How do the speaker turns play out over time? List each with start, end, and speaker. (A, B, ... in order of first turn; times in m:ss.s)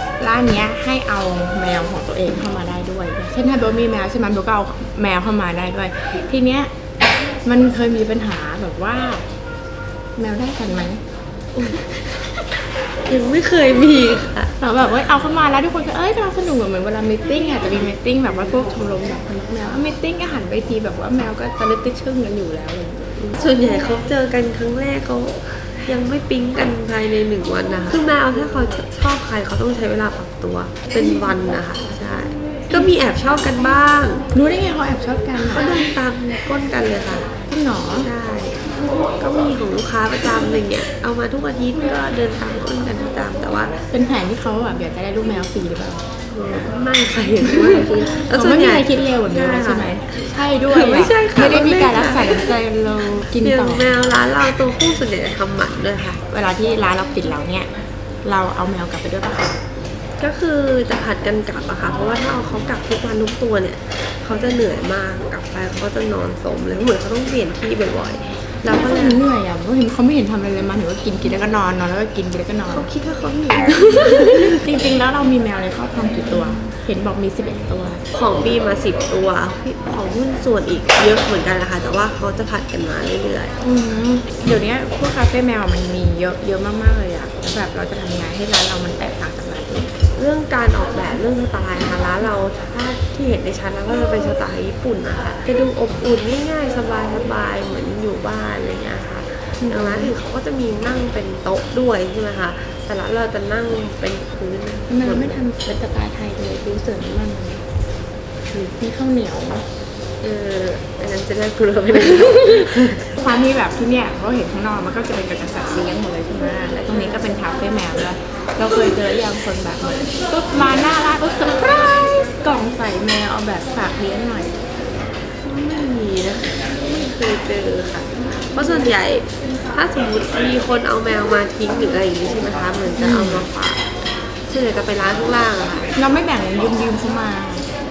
0:00.2-0:06.7 A
0:07.4-0:09.2 A
0:10.2-0:11.0 A
0:11.5-0:11.9 B
0:13.1-0:14.5 B
0:14.6-0:23.2 A
0:23.2-0:34.2 B
0:34.3-0:35.7 A
0:35.4-0:37.3 B
0:37.5-0:38.1 A
0:38.0-0:43.8 B
0:43.9-0:46.0 A
0:46.3-0:52.4 B
0:47.4-0:53.9 A
0:53.3-0:56.2 B
0:56.3-0:57.7 A
0:58.2-0:59.6 A
1:00.2-1:09.2 B
1:08.7-1:12.9 A
1:12.7-1:14.6 B
1:13.8-1:18.0 A
1:18.1-1:23.5 B
1:23.6-1:29.9 A
1:30.2-1:45.4 B
1:39.6-1:40.1 A
1:44.9-1:47.6 A
1:48.5-1:49.6 A
1:50.2-1:53.1 B
1:51.9-1:52.6 A
1:53.2-2:04.6 A
2:05.4-2:13.8 B
2:13.0-2:13.5 A
2:14.5-2:15.9 B
2:16.0-2:17.6 A